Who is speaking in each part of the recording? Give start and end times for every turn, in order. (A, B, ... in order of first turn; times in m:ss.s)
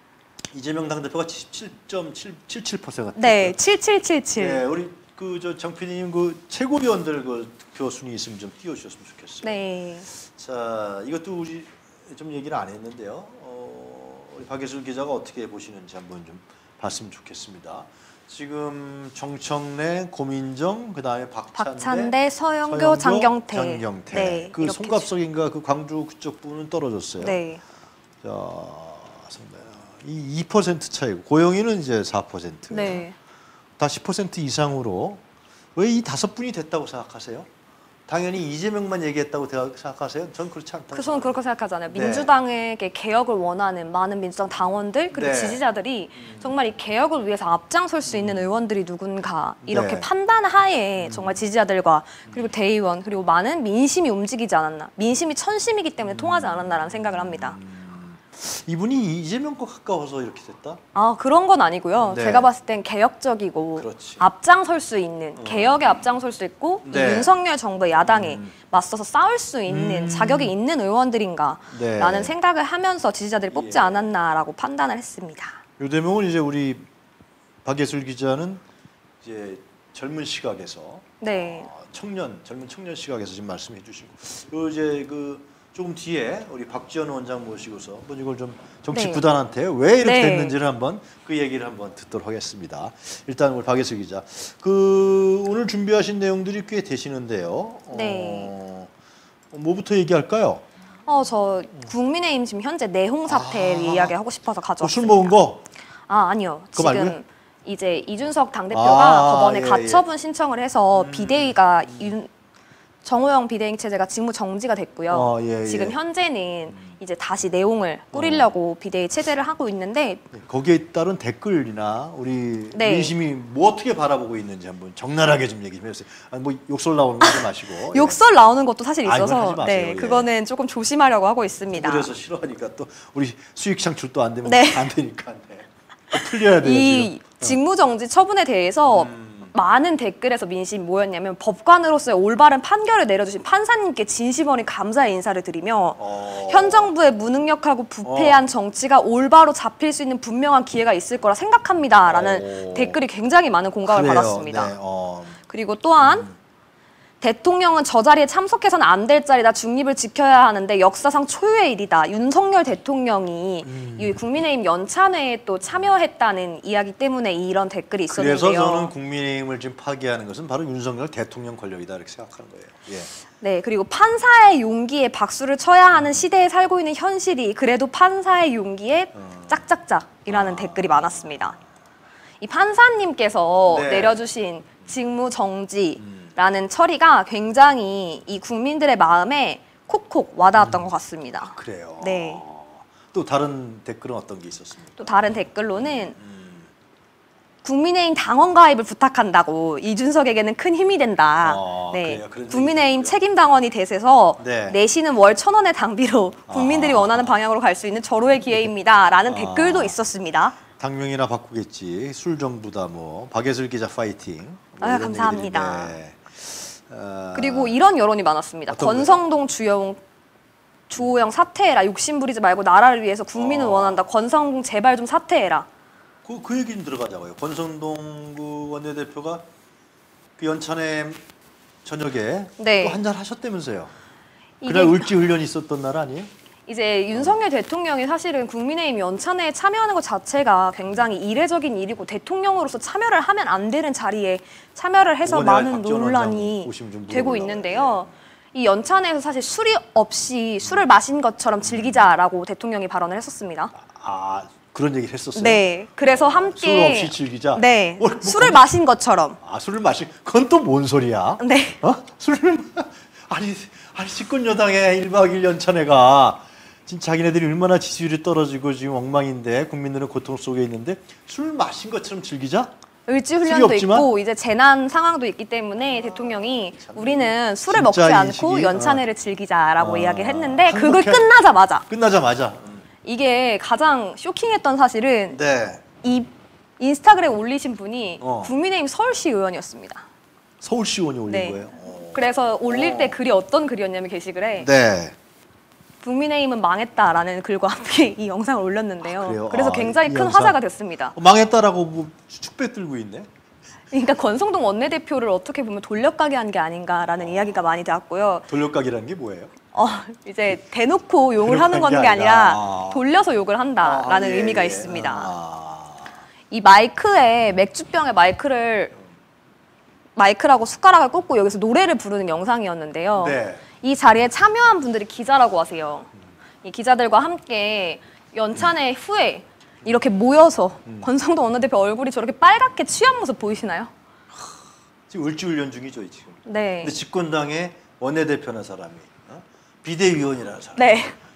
0:00.5-0:03.6 A
0:03.2-0:04.6 B
0:04.4-0:27.4 A
0:09.4-0:10.1 B
0:21.6-0:25.1 B
0:27.2-0:27.6 B
0:28.2-0:33.0 A
0:32.7-0:33.2 B
0:33.8-0:35.2 A
0:35.8-0:37.5 A
0:38.1-0:41.4 A
0:40.9-0:57.6 B
0:41.9-0:42.3 A
0:45.1-0:45.6 A
0:46.2-0:46.5 A
0:48.1-0:48.5 A
0:49.6-0:50.1 A
0:51.0-0:51.4 A
0:56.0-1:00.8 A
1:00.9-1:15.6 B
1:02.0-1:02.5 A
1:03.8-1:04.2 A
1:05.4-1:05.9 A
1:06.8-1:07.3 A
1:08.0-1:08.5 A
1:09.7-1:10.5 A
1:11.7-1:12.3 A
1:13.5-1:14.0 A
1:15.8-1:16.8 A
1:17.6-1:18.6 A
1:19.2-1:38.9 A
1:21.2-1:21.7 B
1:28.9-1:29.2 B
1:30.0-1:30.6 B
1:37.9-1:38.5 B
1:39.5-1:40.6 A
1:41.0-1:45.3 B
1:43.3-1:44.2 A
1:44.8-1:45.6 A
1:46.1-1:52.3 B
1:46.7-1:47.2 A
1:48.7-1:50.0 A
1:51.0-1:52.1 A
1:53.0-2:00.2 B
1:55.1-1:56.0 A
1:58.1-1:58.5 A
2:00.3-2:08.2 A
2:02.7-2:03.1 B
2:07.9-2:12.1 B
2:09.0-2:10.3 A
2:11.7-2:17.6 A
2:14.4-2:14.9 B
2:16.1-2:34.7 B
2:18.9-2:19.5 A
2:26.0-2:26.9 A
2:28.0-2:28.4 A
2:32.1-2:33.0 A
2:33.8-2:35.4 A
2:35.5-2:36.3 B
2:36.0-2:36.3 A
2:37.2-2:48.9 B
2:43.6-2:44.2 A
2:48.1-2:53.1 A
2:53.4-3:01.6 B
2:59.2-2:59.5 A
3:00.3-3:01.6 A
3:02.4-3:12.4 B
3:03.7-3:04.2 A
3:06.0-3:06.3 A
3:10.6-3:10.9 A
3:11.5-3:16.7 A
3:15.0-3:16.2 B
3:17.6-3:30.6 B
3:21.4-3:23.1 A
3:24.4-3:24.8 A
3:26.5-3:27.3 A
3:29.3-3:29.9 A
3:30.7-3:37.7 A
3:34.8-3:35.9 B
3:37.3-3:40.0 B
3:38.7-3:39.2 A
3:40.9-3:45.7 B
3:43.3-3:44.0 A
3:46.2-3:49.4 A
3:50.4-3:51.2 A
3:51.8-3:53.9 A
3:52.6-3:53.0 B
3:54.6-3:55.1 B
3:54.6-3:56.3 A
3:56.6-4:13.7 B
4:05.2-4:08.1 A
4:13.7-4:18.6 A
4:15.4-4:19.4 B
4:19.4-4:32.7 A
4:21.4-4:21.8 B
4:33.1-4:41.8 B
4:33.4-4:34.1 A
4:35.9-4:39.0 A
4:39.8-4:41.3 A
4:41.9-4:42.8 A
4:43.0-4:45.4 B
4:45.3-4:45.8 A
4:46.0-4:50.0 B
4:48.2-4:48.5 A
4:50.6-4:53.2 A
4:51.3-4:54.7 B
4:54.6-4:55.2 A
4:56.0-5:01.1 B
4:59.1-5:00.6 A
5:01.1-5:03.3 A
5:03.9-5:08.4 B
5:07.2-5:07.6 A
5:08.5-5:09.5 A
5:09.7-5:15.3 B
5:11.4-5:13.0 A
5:13.8-5:16.2 A
5:16.5-5:18.9 B
5:20.2-5:26.1 B
5:23.2-5:23.6 A
5:26.6-5:33.9 B
5:35.1-5:41.1 A
5:36.4-5:37.0 B
5:40.8-5:41.2 B